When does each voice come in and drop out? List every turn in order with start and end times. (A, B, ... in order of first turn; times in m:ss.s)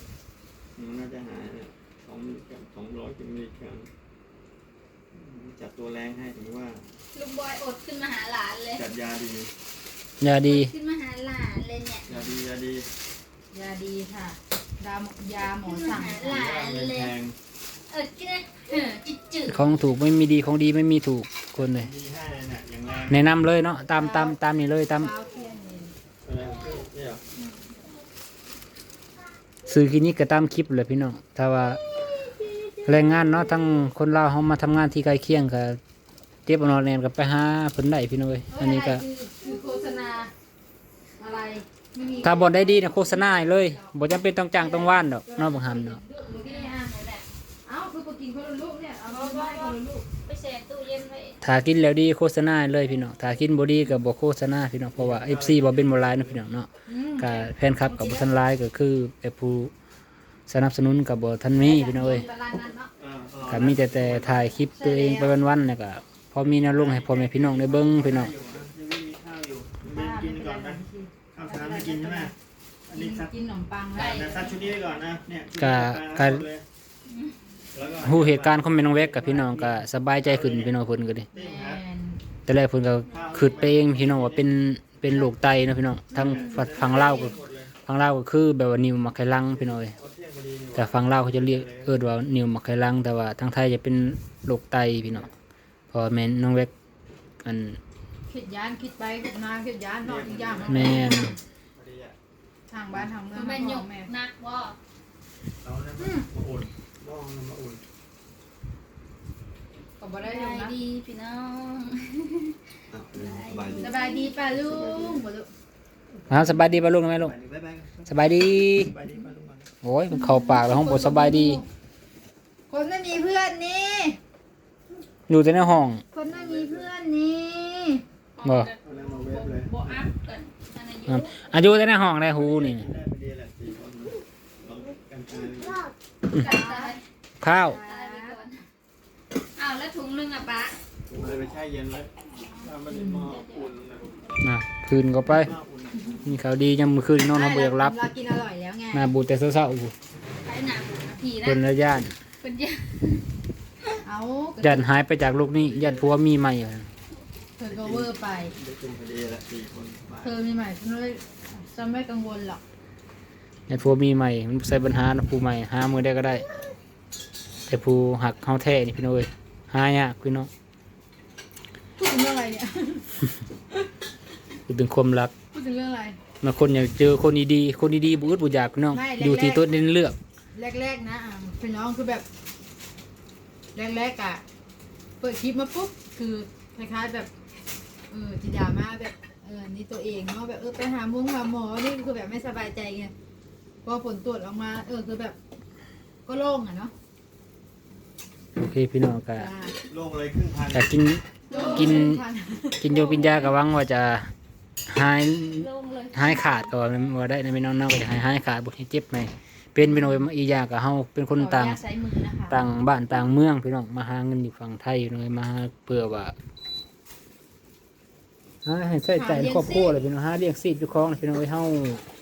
0:00.8-0:03.9 A
0:05.1-0:06.9 A
0:07.1-0:08.8 B
0:08.7-0:09.5 A
0:10.2-0:10.7 C
0:10.4-0:12.1 B
0:12.1-0:12.9 A
0:13.5-0:16.4 D
0:15.6-0:17.1 B
0:16.2-0:17.4 A
0:17.9-0:19.6 B
0:19.4-0:21.9 C
0:21.7-0:23.3 A
0:23.1-0:25.1 C
0:24.0-0:24.4 D
0:24.9-0:25.9 D
0:26.2-0:27.2 A
0:26.4-0:26.8 B
0:27.4-0:27.8 B
0:29.7-0:31.8 C
0:32.2-0:33.5 D
0:32.8-0:35.8 C
0:36.5-0:39.0 C
0:38.5-0:40.3 D
0:41.2-0:46.9 D
0:42.2-0:46.0 C
0:46.3-0:47.3 B
0:47.6-0:50.1 D
0:49.0-0:51.4 B
0:51.4-0:59.7 C
0:55.0-0:56.4 A
0:56.9-0:58.3 D
1:00.5-1:02.3 C
1:01.7-1:02.8 D
1:01.9-1:02.9 B
1:03.0-1:04.5 A
1:03.5-1:08.3 C
1:04.7-1:05.3 D
1:06.6-1:10.8 A
1:09.9-1:12.3 D
1:11.3-1:12.3 A
1:12.9-1:13.3 A
1:12.9-1:14.5 D
1:14.0-1:14.5 B
1:14.0-1:16.6 A
1:15.6-1:16.4 C
1:17.7-1:20.7 A
1:18.0-1:21.3 C
1:21.3-1:22.2 D
1:21.3-1:21.8 A
1:22.5-1:30.0 C
1:23.1-1:24.5 A
1:26.1-1:27.3 D
1:26.2-1:27.7 A
1:29.5-1:32.0 A
1:30.8-1:35.3 C
1:35.9-1:36.7 C
1:37.4-1:37.8 C
1:38.3-1:41.4 D
1:40.0-1:41.1 A
1:40.6-1:41.4 C
1:41.7-1:42.2 A
1:42.7-1:44.1 D
1:43.3-1:44.8 B
1:45.6-1:47.8 A
1:46.0-1:46.3 D
1:50.0-1:50.8 D
1:50.2-1:52.6 B
1:52.9-1:55.2 A
1:53.1-1:54.2 B
1:53.8-1:55.5 D
1:56.3-1:57.3 C
1:57.2-1:59.7 A
1:58.1-1:58.9 C
1:59.8-2:01.6 C
2:00.2-2:01.6 D
2:02.7-2:04.2 D
2:05.3-2:06.0 C
2:06.1-2:08.0 D
2:06.3-2:06.9 A
2:08.4-2:11.5 B
2:08.4-2:08.7 C
2:08.8-2:10.0 A
2:11.1-2:12.9 C
2:12.3-2:15.8 A
2:16.3-2:17.0 B
2:16.3-2:17.0 D
2:17.4-2:17.8 C
2:17.6-2:18.4 D
2:17.7-2:18.6 B
2:19.6-2:20.8 B
2:21.1-2:24.4 A
2:22.3-2:23.7 B
2:22.9-2:23.3 D
2:24.4-2:25.5 C
2:25.2-2:26.3 A
2:26.2-2:28.1 C
2:27.3-2:29.1 D
2:28.9-2:29.9 C
2:30.4-2:31.6 B
2:31.4-2:32.1 C
2:32.4-2:33.2 B
2:34.0-2:34.9 D
2:34.6-2:36.9 C
2:35.6-2:36.1 A
2:37.6-2:38.6 D
2:37.7-2:40.3 A
2:40.2-2:42.6 D
2:43.7-2:46.5 C
2:47.7-2:50.5 C
2:52.0-2:53.2 D
2:54.7-2:55.3 C
2:55.5-2:56.2 D
2:56.4-3:00.2 C
2:58.9-2:59.7 D
3:00.5-3:02.2 D
3:03.8-3:04.4 D
3:05.2-3:07.3 D
3:08.1-3:13.1 D
3:13.8-3:15.4 D
3:16.3-3:16.9 D
3:18.6-3:19.5 C
3:19.4-3:19.8 D
3:19.9-3:20.9 A
3:20.7-3:22.2 C
3:21.5-3:22.0 B
3:21.5-3:23.2 D
3:22.8-3:24.3 C
3:24.9-3:31.8 C
3:25.6-3:26.6 B
3:31.4-3:32.7 D
3:32.5-3:36.3 C
3:38.6-3:42.0 C
3:39.1-3:40.0 D